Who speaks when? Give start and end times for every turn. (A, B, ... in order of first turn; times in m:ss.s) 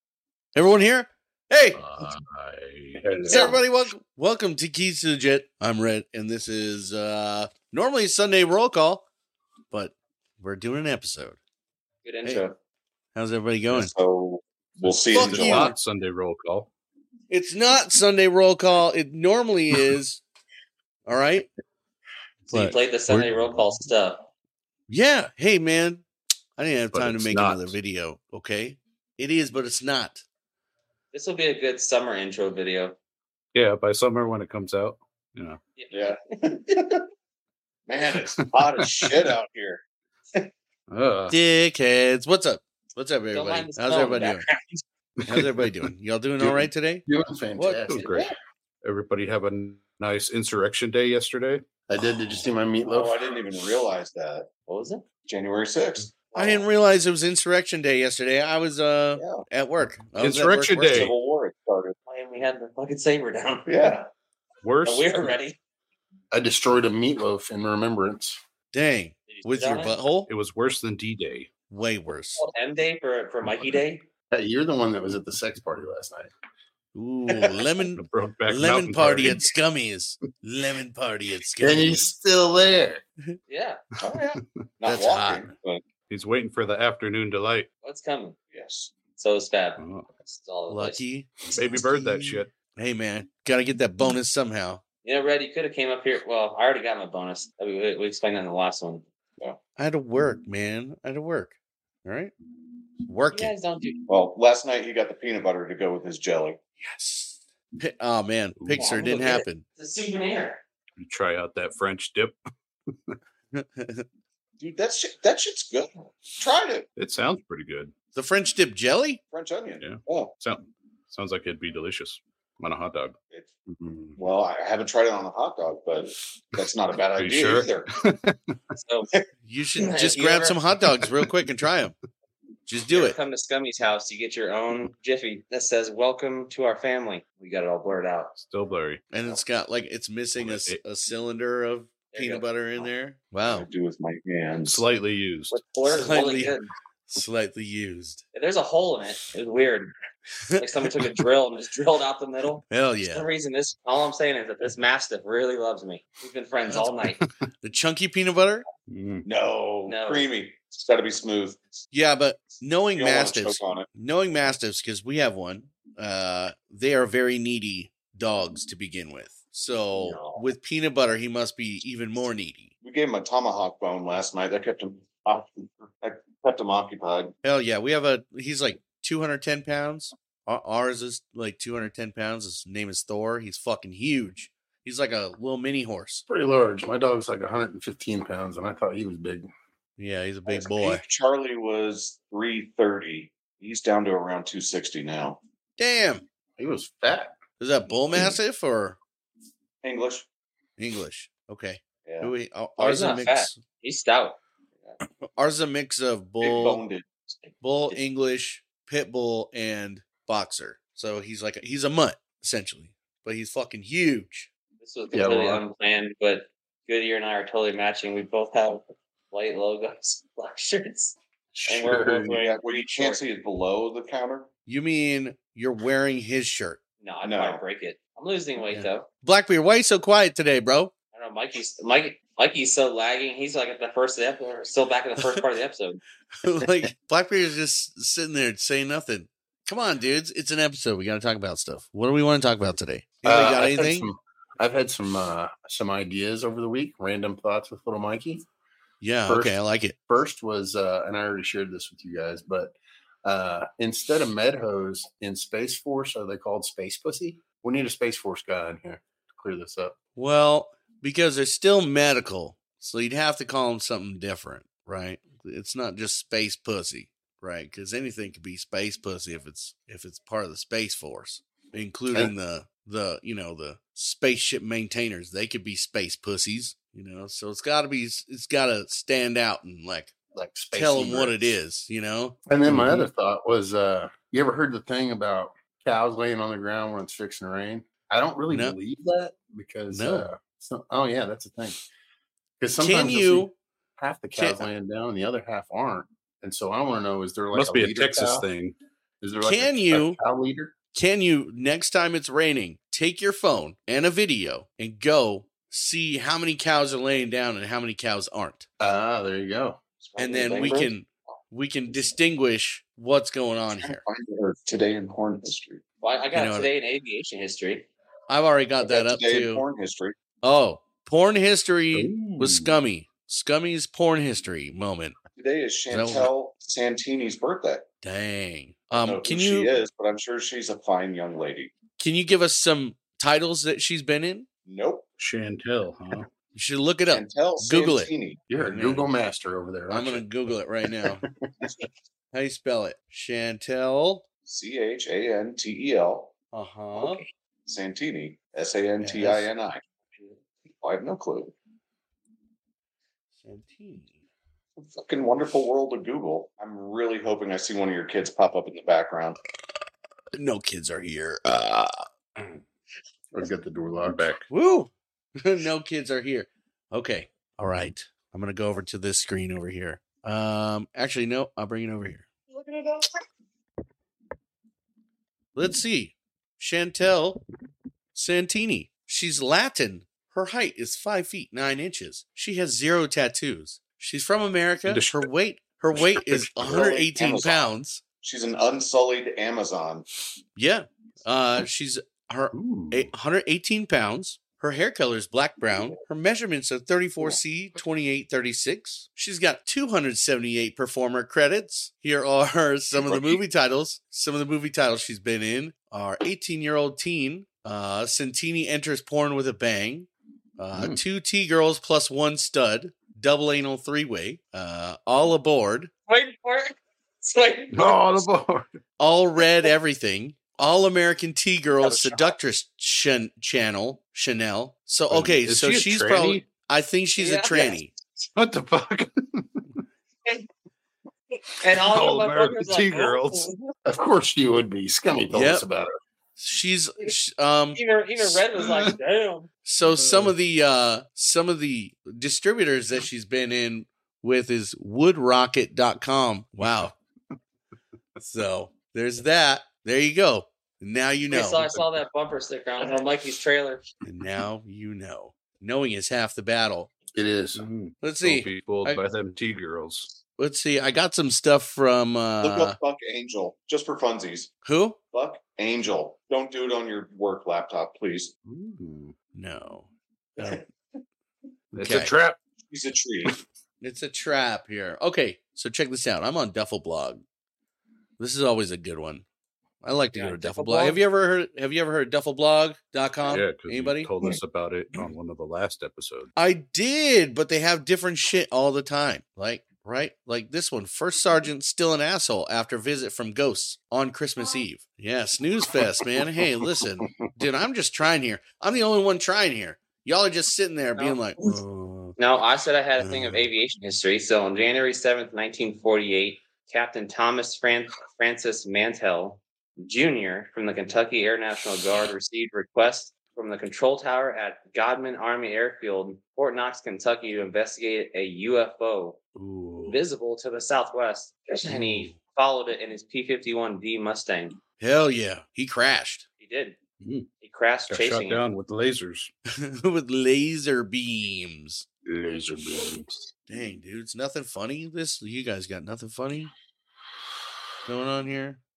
0:00.5-0:02.1 A
0:01.7-0:03.6 B
0:03.2-0:09.0 A
0:03.3-0:03.6 C
0:09.7-0:11.4 A
0:12.0-0:12.4 C
0:13.1-0:13.9 A
0:13.7-0:15.7 D
0:14.8-0:16.7 B
0:15.1-0:15.7 A
0:17.3-0:20.2 A
0:21.1-0:21.5 A
0:22.5-0:24.2 C
0:22.5-0:22.8 A
0:23.1-0:23.6 B
0:24.9-0:26.0 A
0:26.6-0:30.2 A
0:26.9-0:27.7 B
0:31.1-0:33.0 C
0:33.5-0:35.6 B
0:35.9-0:37.0 D
0:37.9-0:39.8 D
0:40.9-0:41.3 B
0:41.3-0:44.4 A
0:43.3-0:44.8 C
0:45.2-0:45.8 B
0:45.2-0:47.0 A
0:46.4-0:48.1 E
0:47.6-0:47.9 A
0:47.9-0:48.3 B
0:48.0-0:48.3 C
0:48.8-0:51.6 B
0:51.9-0:53.3 E
0:52.9-0:54.5 D
0:54.7-0:55.0 C
0:55.3-0:56.2 D
0:56.3-0:56.6 C
0:56.3-1:01.1 A
0:59.1-0:59.4 D
1:00.2-1:01.1 B
1:00.9-1:01.9 D
1:02.1-1:03.9 C
1:03.7-1:04.1 D
1:04.6-1:05.3 B
1:04.8-1:05.6 C
1:06.3-1:08.4 E
1:08.7-1:10.3 A
1:09.3-1:10.0 C
1:10.3-1:11.5 B
1:11.7-1:12.4 A
1:12.4-1:14.0 C
1:14.3-1:16.3 E
1:16.9-1:22.0 A
1:18.0-1:19.5 B
1:21.6-1:23.0 E
1:23.5-1:23.8 C
1:24.0-1:25.8 D
1:24.8-1:25.4 A
1:26.1-1:27.7 B
1:27.8-1:28.4 C
1:28.5-1:28.9 D
1:29.2-1:31.0 C
1:29.8-1:30.1 B
1:30.7-1:34.8 A
1:31.5-1:32.5 B
1:35.0-1:39.0 C
1:39.8-1:42.3 A
1:43.0-1:43.5 A
1:43.3-1:44.0 C
1:44.1-1:46.6 D
1:46.8-1:49.6 A
1:48.6-1:48.9 B
1:48.8-1:50.6 C
1:51.0-1:52.4 B
1:53.5-1:54.0 A
1:54.6-1:56.9 D
1:57.0-1:57.9 B
1:58.1-1:59.2 A
1:59.3-2:00.3 D
1:59.8-2:03.1 B
2:04.2-2:07.9 D
2:07.2-2:08.5 B
2:08.8-2:09.1 C
2:09.4-2:11.9 A
2:09.8-2:10.6 C
2:12.7-2:13.2 A
2:12.9-2:18.4 C
2:18.5-2:19.0 B
2:19.1-2:23.7 A
2:20.4-2:20.8 B
2:22.1-2:22.8 C
2:23.4-2:24.8 D
2:24.6-2:25.6 B
2:25.5-2:26.7 C
2:25.8-2:26.6 A
2:27.1-2:28.2 A
2:28.3-2:29.9 C
2:30.5-2:31.1 A
2:30.6-2:37.2 C
2:32.7-2:33.3 A
2:36.7-2:37.0 A
2:37.6-2:38.6 A
2:38.9-2:39.2 B
2:39.2-2:41.6 D
2:39.8-2:40.2 C
2:41.9-2:52.7 A
2:42.9-2:43.9 D
2:49.9-2:50.4 D
2:52.8-2:57.3 D
2:57.4-3:06.2 A
3:06.3-3:09.5 E
3:10.0-3:11.0 A
3:10.5-3:15.4 D
3:15.8-3:16.2 A
3:16.6-3:17.4 E
3:17.6-3:19.0 A
3:19.8-3:20.2 D
3:20.8-3:23.6 A
3:22.0-3:22.3 D
3:22.8-3:24.4 C
3:25.2-3:26.8 A
3:26.4-3:27.5 D
3:27.6-3:34.5 A
3:34.8-3:41.1 C
3:35.1-3:35.6 E
3:41.6-3:42.4 E
3:41.6-3:43.2 C
3:42.2-3:44.5 D
3:44.6-3:46.8 A
3:47.0-3:49.0 C
3:47.2-3:47.6 D
3:48.7-3:50.9 A
3:51.1-3:56.0 C
3:56.4-4:04.1 A
4:03.2-4:08.4 E
4:09.0-4:09.9 A
4:09.3-4:20.0 E
4:20.2-4:40.1 A
4:40.3-4:41.5 E
4:40.7-4:42.4 A
4:42.5-4:51.8 E
4:42.7-4:43.0 B
4:48.5-4:48.8 A
4:49.9-4:50.3 A
4:52.6-4:58.5 E
4:52.8-4:53.5 A
4:54.4-4:54.7 A
4:57.5-4:58.7 B
4:59.2-5:00.8 E
4:59.4-5:00.2 A
5:00.9-5:08.7 A
5:08.8-5:09.8 E
5:10.0-5:10.9 D
5:10.2-5:10.8 C
5:10.2-5:14.0 A
5:13.8-5:15.8 D
5:16.0-5:17.9 C
5:16.3-5:16.7 A
5:18.3-5:19.6 A
5:18.8-5:20.2 D
5:20.4-5:25.2 A
5:21.9-5:22.8 B
5:25.4-5:27.8 D
5:25.9-5:26.3 A
5:28.0-5:29.8 A
5:28.9-5:31.7 D
5:32.0-5:34.5 A
5:34.6-5:35.1 D
5:35.2-5:36.3 B
5:36.5-5:39.1 A
5:37.1-5:38.4 D
5:38.5-5:40.2 E
5:39.9-5:41.2 A
5:40.9-5:41.3 E
5:42.3-5:44.2 A
5:44.4-5:46.3 D
5:46.5-5:47.2 A
5:47.0-5:47.2 C
5:47.6-5:49.8 D
5:49.0-5:49.5 A
5:50.7-5:51.5 D
5:53.4-5:54.2 A
5:54.8-5:59.4 D
6:00.3-6:02.0 A
6:03.3-6:04.3 E
6:04.0-6:04.4 B
6:04.5-6:12.3 A
6:15.5-6:17.4 A
6:18.1-6:28.0 A
6:24.8-6:25.3 B
6:26.0-6:26.6 B
6:26.6-6:30.0 D
6:30.6-6:55.9 A
6:32.5-6:33.1 B
6:35.6-6:36.0 D
6:42.9-6:43.4 D
6:50.7-6:51.0 B
6:56.1-6:58.3 C
6:57.7-6:58.7 B
6:59.0-7:07.9 A
7:01.8-7:02.2 C
7:05.1-7:06.5 B
7:07.2-7:07.8 C
7:08.4-7:09.6 B
7:11.5-7:13.5 C
7:11.8-7:13.5 B
7:13.8-7:15.9 E
7:15.3-7:15.7 A
7:16.4-7:18.3 A
7:17.7-7:19.5 C
7:19.6-7:26.9 A
7:20.0-7:20.3 B
7:28.2-7:31.7 A
7:31.3-7:33.8 C
7:34.0-7:36.9 A
7:37.1-7:37.6 E
7:37.6-7:40.1 B
7:38.0-7:39.0 A
7:40.4-7:42.8 A
7:42.4-7:44.5 D
7:44.6-7:45.0 A
7:45.1-7:48.3 D
7:48.4-7:49.1 B
7:49.3-7:50.6 A
7:51.7-7:52.4 B
7:51.8-7:52.1 A
7:52.7-7:53.3 D
7:53.8-7:57.2 A
7:58.2-7:59.2 A
7:59.8-8:04.1 A
8:00.1-8:01.0 C
8:03.2-8:06.3 B
8:06.4-8:22.2 A
8:22.2-8:39.2 C
8:23.0-8:23.4 A
8:39.4-8:40.0 B
8:39.8-8:44.6 C
8:41.7-8:42.2 A
8:44.8-8:46.2 A
8:46.4-8:46.8 C
8:47.0-8:47.3 B
8:47.4-8:48.4 C
8:47.9-8:49.3 B
8:49.5-8:51.8 A
8:52.2-8:52.5 E
8:52.7-8:53.0 B
8:53.5-8:56.5 A
8:57.8-8:58.6 A